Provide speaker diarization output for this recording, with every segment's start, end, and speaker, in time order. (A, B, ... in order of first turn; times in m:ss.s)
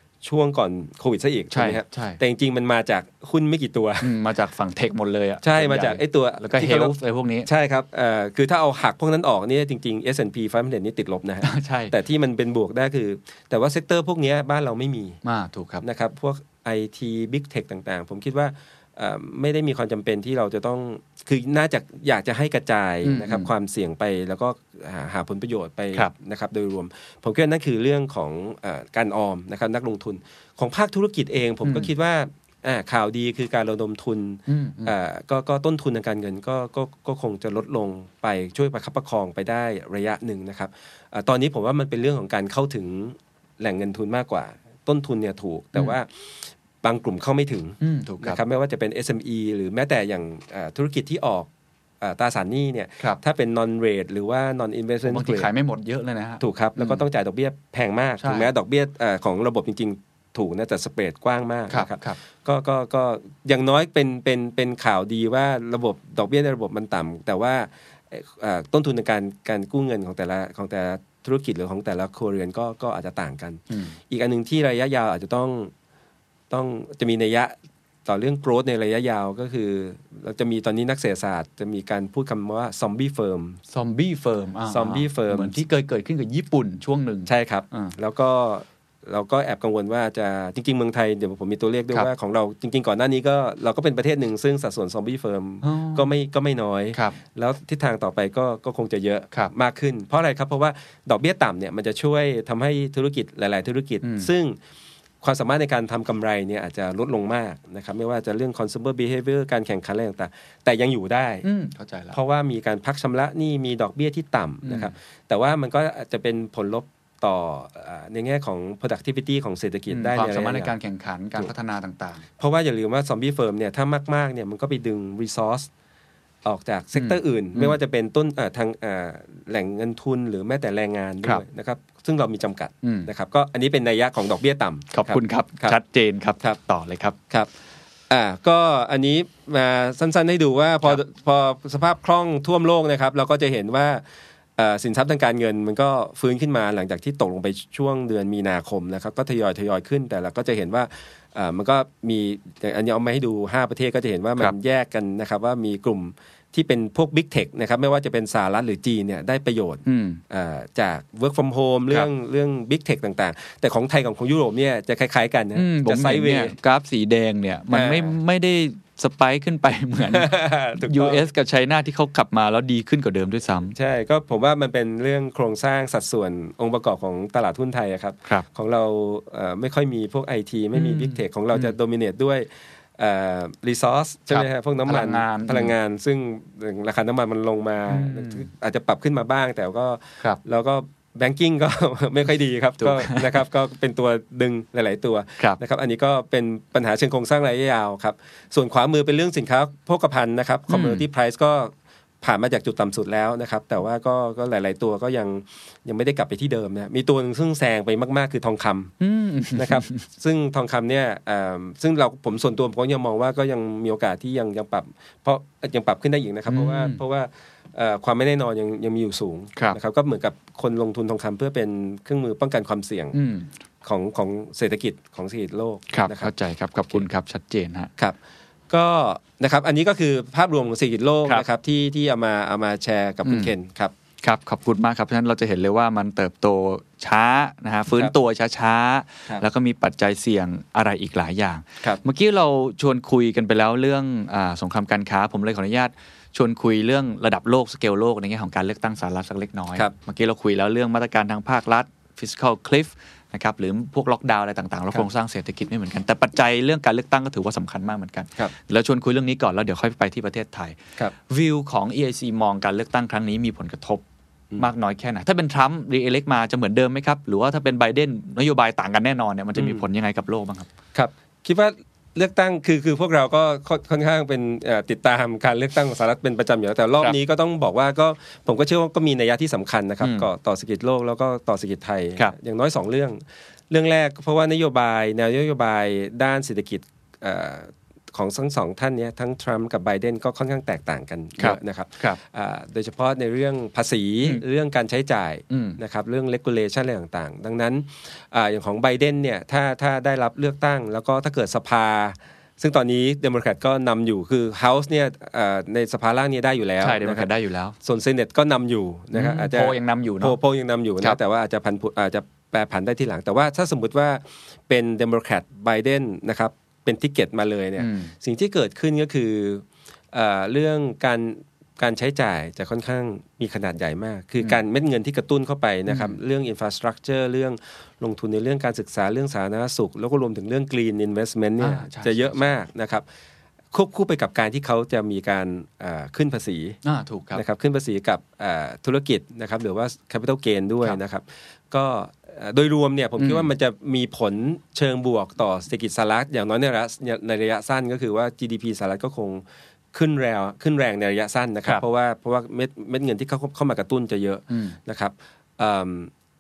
0:00.2-0:04.1 A
0:01.5-0:02.2 B
0:04.0-0:07.5 B
0:05.4-0:06.9 A
0:07.4-0:15.2 A
0:11.4-0:11.9 B
0:15.2-0:15.8 B
0:15.8-0:51.5 A
0:23.0-0:23.5 B
0:31.6-0:31.9 B
0:34.5-0:34.9 B
0:47.8-0:48.4 B
0:52.0-0:55.5 A
0:55.0-0:57.0 B
0:56.4-1:15.7 A
0:58.2-0:58.5 B
1:01.7-1:02.2 B
1:13.7-1:14.0 B
1:16.5-1:17.5 A
1:18.0-1:23.6 A
1:23.7-1:27.9 B
1:24.7-1:25.6 A
1:27.2-1:44.6 A
1:35.6-1:36.1 B
1:44.0-1:44.3 B
1:45.2-1:51.4 A
1:51.4-1:52.2 B
1:52.1-2:00.7 A
1:54.6-1:54.9 B
1:59.9-2:02.2 B
2:02.4-2:05.7 A
2:06.4-2:15.8 A
2:06.9-2:07.7 B
2:12.8-2:13.1 B
2:14.9-2:17.2 B
2:18.1-2:24.0 A
2:24.6-2:46.5 A
2:39.8-2:40.2 B
2:45.5-2:53.8 B
2:47.7-2:48.1 A
2:50.1-2:51.2 A
2:53.7-3:28.9 A
3:00.7-3:01.7 B
3:04.3-3:05.7 B
3:07.9-3:08.5 B
3:12.8-3:13.3 B
3:20.7-3:21.0 B
3:29.0-3:30.0 B
3:29.5-3:43.1 A
3:36.5-3:37.0 B
3:43.1-3:43.5 B
3:43.8-3:46.3 A
3:45.9-3:47.9 B
3:48.7-3:53.9 A
3:53.2-3:53.5 B
3:54.2-4:24.0 B
4:24.6-4:30.7 B
4:29.6-4:29.8 A
4:30.9-4:43.2 A
4:40.0-4:40.3 B
4:43.7-5:07.3 A
4:51.4-4:52.2 B
4:55.5-4:55.8 B
5:06.8-5:07.8 B
5:07.8-5:33.0 A
5:09.1-5:10.4 B
5:17.8-5:18.1 B
5:25.9-5:26.2 B
5:31.6-5:32.5 B
5:33.7-5:36.8 A
5:36.8-5:37.4 B
5:37.3-5:56.1 A
5:43.2-5:43.5 B
5:54.5-5:54.8 B